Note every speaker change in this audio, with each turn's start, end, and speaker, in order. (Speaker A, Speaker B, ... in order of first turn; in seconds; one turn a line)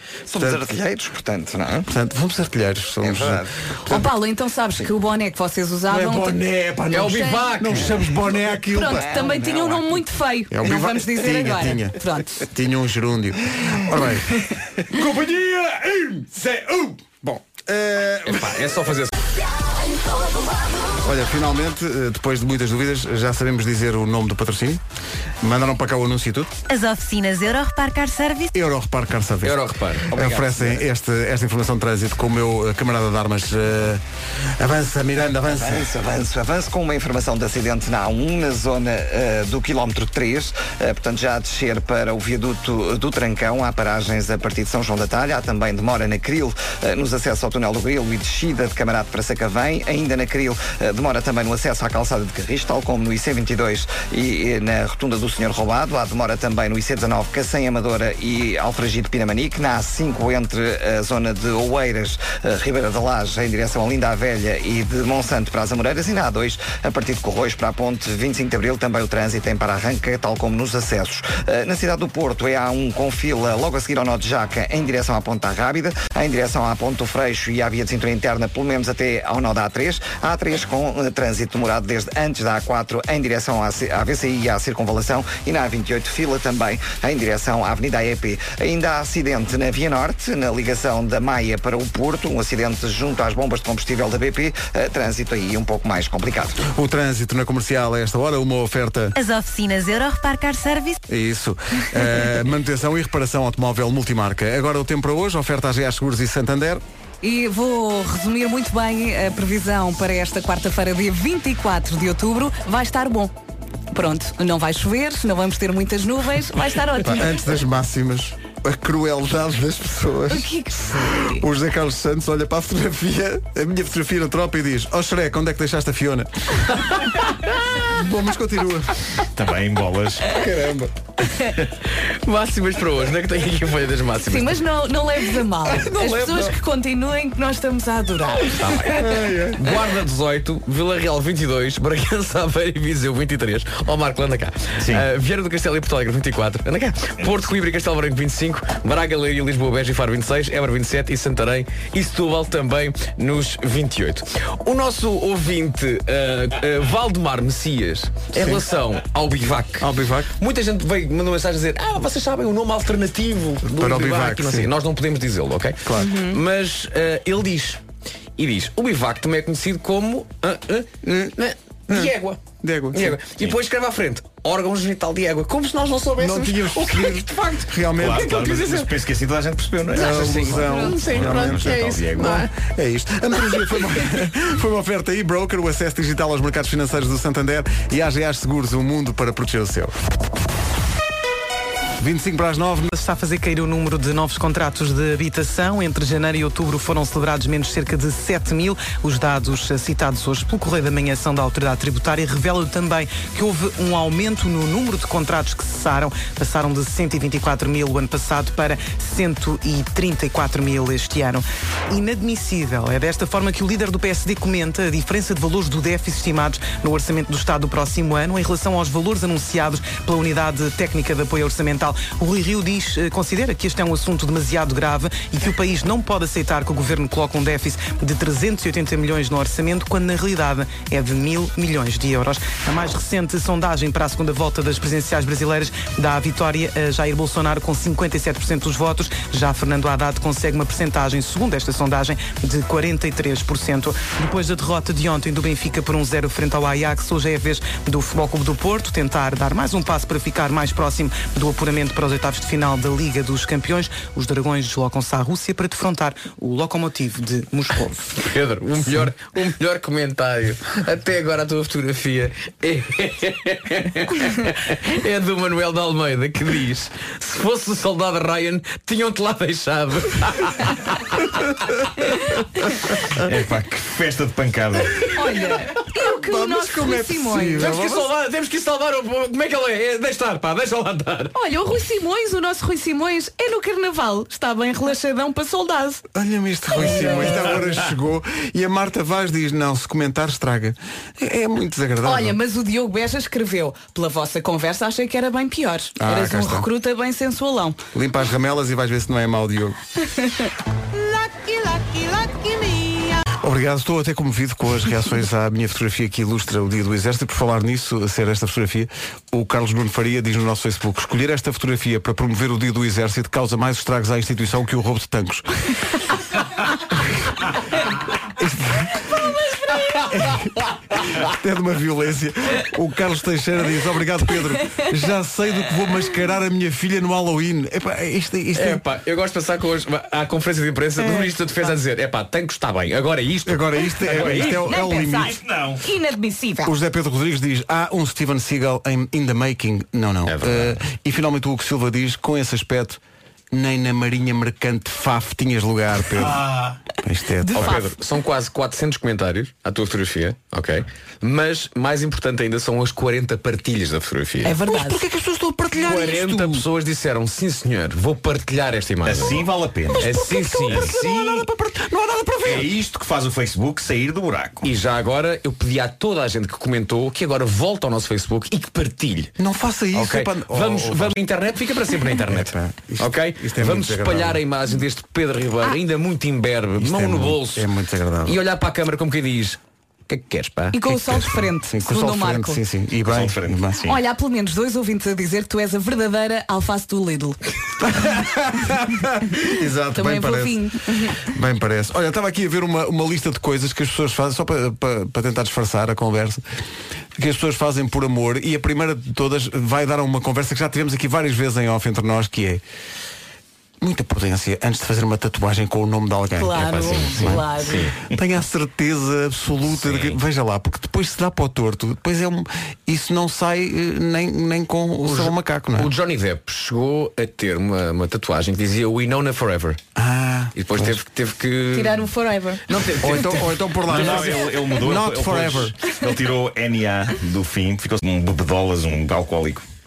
Speaker A: 0.3-1.9
Speaker B: 0.4-0.8
Speaker B: 1.9-4.1
Speaker A: 3.0-3.5
Speaker C: 3.9-6.4
Speaker B: 5.9-9.5
Speaker D: 6.9-8.0
Speaker C: 6.9-7.7
Speaker C: 8.7-12.5
Speaker A: 9.3-9.6
Speaker B: 10.5-18.6
Speaker D: 18.2-19.1
Speaker B: 21.0-24.8
Speaker B: 25.4-26.5
Speaker E: 26.7-28.5
Speaker B: 28.5-35.9
Speaker D: 29.4-30.7
Speaker A: 35.5-96.6
Speaker B: 96.6-99.2
Speaker E: 99.2-101.0
Speaker B: 101.1-106.8
Speaker C: 107.2-113.3
Speaker C: 113.9-117.3
Speaker B: 117.0-126.7
Speaker C: 120.3-121.4
Speaker B: 127.8-129.0
Speaker F: 129.2-130.4
Speaker B: 130.3-130.9
Speaker D: 131.8-134.6
Speaker C: 134.2-138.9
Speaker B: 135.9-136.5
Speaker D: 138.6-167.8
Speaker B: 138.9-139.6
Speaker F: 144.8-145.1
Speaker B: 158.3-158.6
Speaker B: 159.8-160.3
Speaker B: 163.7-164.7
Speaker B: 165.8-166.2
Speaker C: 166.0-166.4
Speaker D: 168.4-178.9
Speaker B: 171.1-171.3
Speaker B: 171.9-173.2
Speaker B: 176.2-178.4
Speaker F: 178.0-182.4
Speaker B: 179.9-190.0
Speaker D: 180.0-182.5
Speaker B: 192.0-192.9
Speaker G: 192.9-258.2
Speaker D: 258.2-271.5
Speaker F: 273.1-275.2
Speaker C: 275.1-277.7
Speaker B: 276.0-278.1
Speaker D: 277.6-281.4
Speaker C: 281.4-286.0
Speaker B: 286.1-292.4
Speaker C: 286.8-287.5
Speaker C: 292.0-297.8
Speaker B: 296.0-296.7
Speaker B: 297.9-299.8
Speaker C: 300.1-300.4
Speaker B: 303.3-315.5
Speaker B: 318.2-319.3
Speaker B: 320.1-328.8
Speaker D: 328.5-334.7
Speaker B: 333.4-335.3
Speaker F: 334.1-335.8
Speaker C: 334.7-336.7
Speaker B: 336.6-343.0
Speaker D: 340.3-340.8
Speaker B: 343.5-346.4
Speaker B: 347.0-347.7
Speaker C: 347.4-347.9
Speaker D: 347.6-354.6
Speaker C: 354.4-355.0
Speaker B: 354.7-356.7
Speaker D: 355.8-361.0
Speaker F: 359.0-360.1
Speaker B: 360.0-362.7
Speaker F: 360.7-361.5
Speaker F: 362.4-364.7
Speaker D: 364.6-369.3
Speaker B: 369.4-371.2
Speaker D: 369.9-377.7
Speaker B: 372.3-374.4
Speaker B: 376.8-378.4
Speaker D: 378.2-380.8
Speaker C: 380.7-382.6
Speaker B: 380.8-383.9
Speaker F: 383.1-384.0
Speaker C: 383.9-387.4
Speaker B: 387.8-396.4
Speaker C: 389.9-391.2
Speaker B: 397.2-402.6
Speaker B: 403.8-407.5
Speaker C: 406.4-407.9
Speaker D: 406.9-407.9
Speaker B: 408.1-415.9
Speaker F: 409.8-410.2
Speaker D: 415.0-419.8
Speaker B: 420.0-421.0
Speaker D: 420.6-424.5
Speaker C: 421.7-422.6
Speaker B: 423.0-425.7
Speaker F: 423.9-429.7